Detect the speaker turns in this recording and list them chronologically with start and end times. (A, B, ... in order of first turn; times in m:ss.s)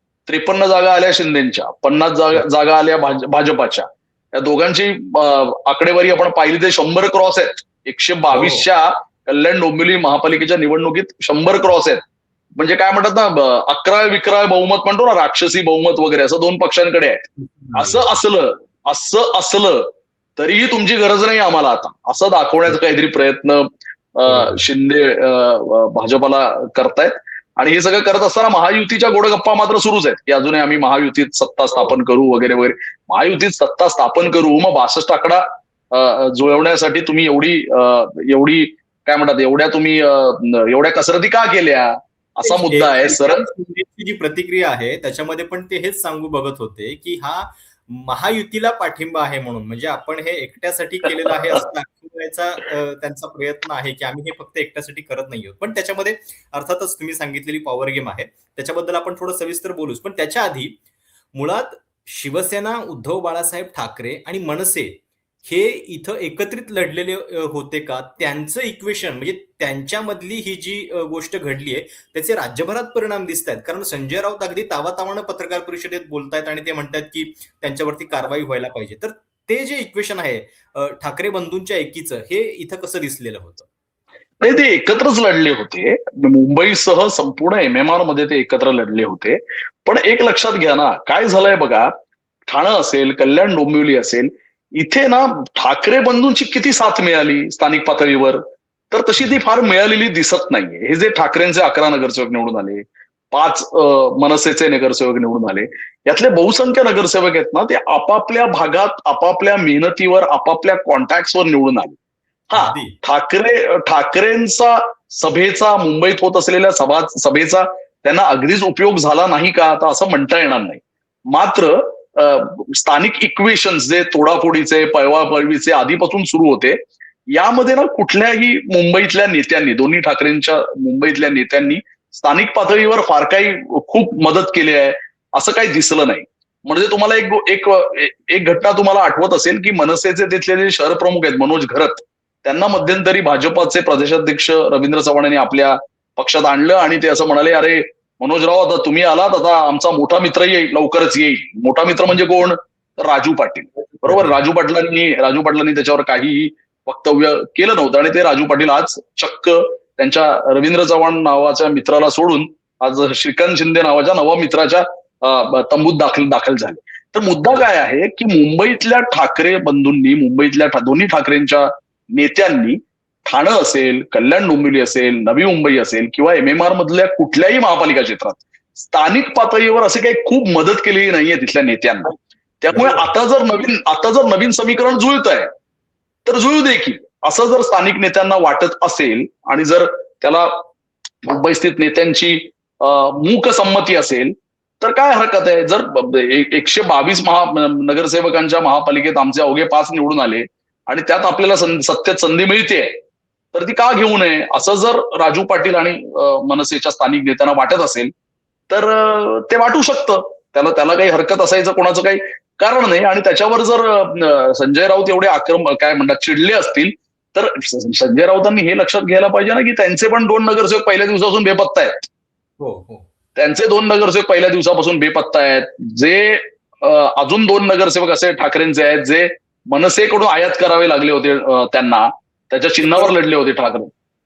0:00.3-0:43.4 A
0:08.3-0:08.7 B
0:17.4-0:18.2 B
0:24.3-0:24.6 B
0:42.4-1:00.8 B
1:01.3-1:23.7 B
1:24.4-1:31.9 A
1:32.5-1:52.0 A
1:52.5-2:06.8 A
1:52.5-1:53.0 B
2:07.3-3:05.5 A
2:34.0-2:34.4 B
3:02.7-3:03.1 B
3:06.3-3:10.6 A
3:11.2-3:23.0 A
3:23.5-3:28.1 A
3:28.7-3:42.0 A
3:42.6-3:43.1 B
3:43.4-3:53.9 A
3:52.8-3:53.1 B